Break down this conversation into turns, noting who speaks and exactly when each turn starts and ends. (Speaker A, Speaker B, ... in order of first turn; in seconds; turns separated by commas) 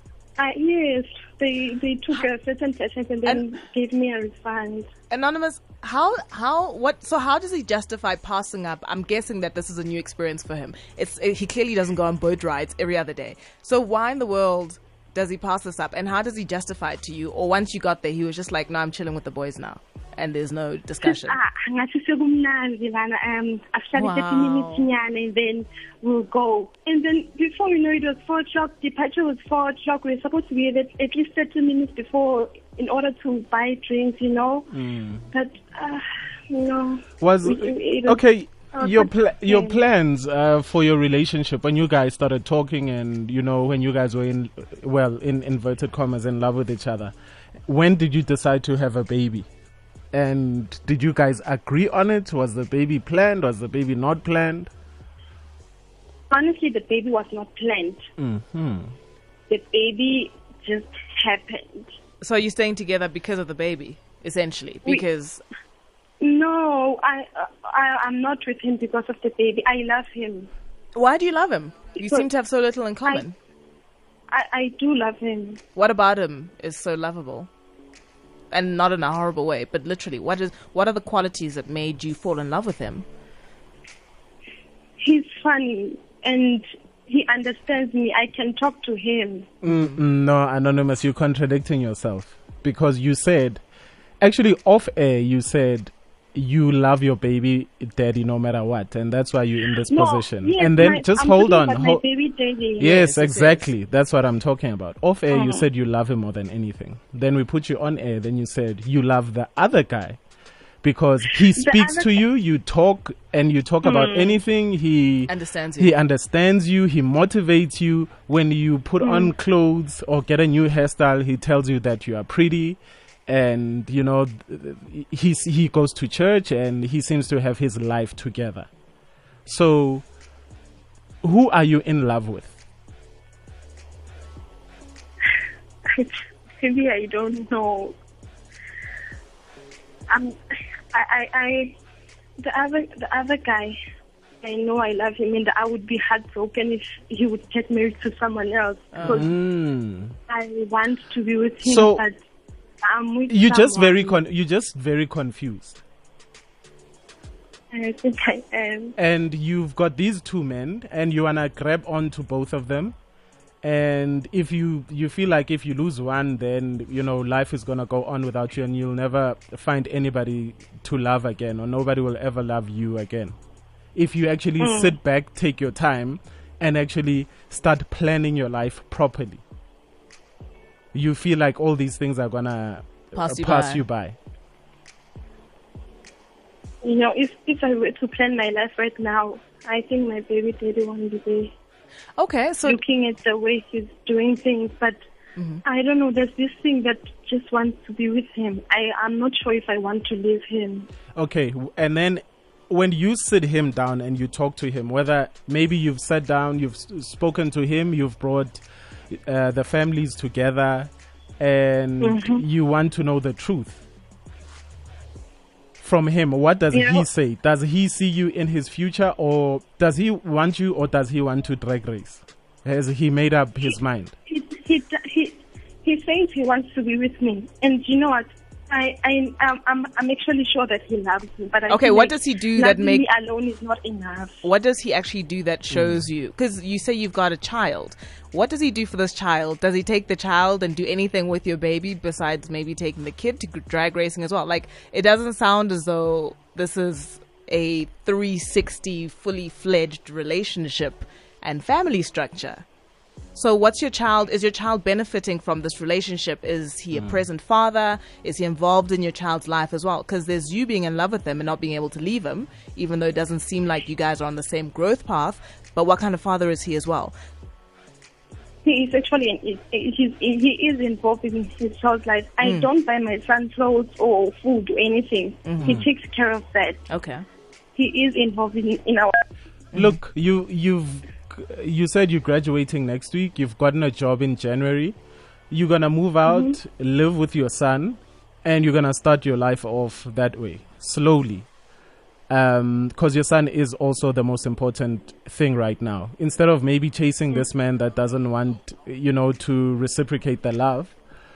Speaker A: 0.4-4.9, Speaker B: 3.2-3.6, Speaker B: 5.1-21.4, Speaker A: 21.0-34.7, Speaker B: 23.9-24.9, Speaker C: 34.7-35.2, Speaker A: 35.3-38.2, Speaker C: 37.2-47.1, Speaker A: 38.7-39.9, Speaker C: 47.7-49.5, Speaker C: 50.1-54.7, Speaker A: 56.3-58.0, Speaker C: 58.2-58.9, Speaker A: 59.5-62.0, Speaker B: 62.2-65.4, Speaker A: 66.2-70.5, Speaker B: 70.9-73.4, Speaker A: 72.0-72.3, Speaker A: 74.3-75.6, Speaker B: 75.8-77.5, Speaker B: 78.5-83.1, Speaker A: 85.0-89.5, Speaker C: 89.6-93.6, Speaker B: 89.7-90.0, Speaker C: 94.2-102.0, Speaker A: 99.9-102.9, Speaker B: 102.8-103.7, Speaker C: 102.8-110.2, Speaker A: 105.3-105.7, Speaker C: 110.8-128.7, Speaker A: 111.5-112.2, Speaker A: 113.8-114.4, Speaker B: 115.2-116.0, Speaker A: 119.0-119.3, Speaker C: 129.5-130.0, Speaker C: 131.2-132.5, Speaker A: 135.9-138.0, Speaker A: 140.1-140.4, Speaker A: 140.9-141.8, Speaker A: 142.4-143.8, Speaker A: 144.4-149.3, Speaker B: 148.9-149.3, Speaker C: 149.1-150.2, Speaker A: 150.3-152.2, Speaker C: 151.6-152.0, Speaker A: 152.8-154.2, Speaker C: 153.3-155.8, Speaker A: 157.7-158.9, Speaker C: 159.0-162.9, Speaker C: 163.6-173.3, Speaker C: 173.9-179.4, Speaker A: 174.6-175.0, Speaker C: 180.9-184.2, Speaker B: 183.1-183.8, Speaker A: 186.8-191.5, Speaker B: 192.2-192.8, Speaker A: 192.6-195.0, Speaker B: 195.4-195.6, Speaker A: 195.6-200.9, Speaker C: 201.2-213.8, Speaker A: 212.0-212.4, Speaker C: 215.8-224.1, Speaker A: 216.7-217.1, Speaker A: 224.3-234.4, Speaker B: 231.7-233.1, Speaker B: 234.4-252.6, Speaker C: 235.7-236.1, Speaker B: 253.3-267.1, Speaker C: 256.9-257.2, Speaker A: 268.6-276.8, Speaker B: 272.4-272.7, Speaker B: 275.4-275.8, Speaker B: 276.9-277.2, Speaker A: 277.8-279.1, Speaker B: 279.7-280.0, Speaker C: 279.7-285.0, Speaker C: 285.5-291.5, Speaker A: 286.2-286.6, Speaker C: 292.3-300.9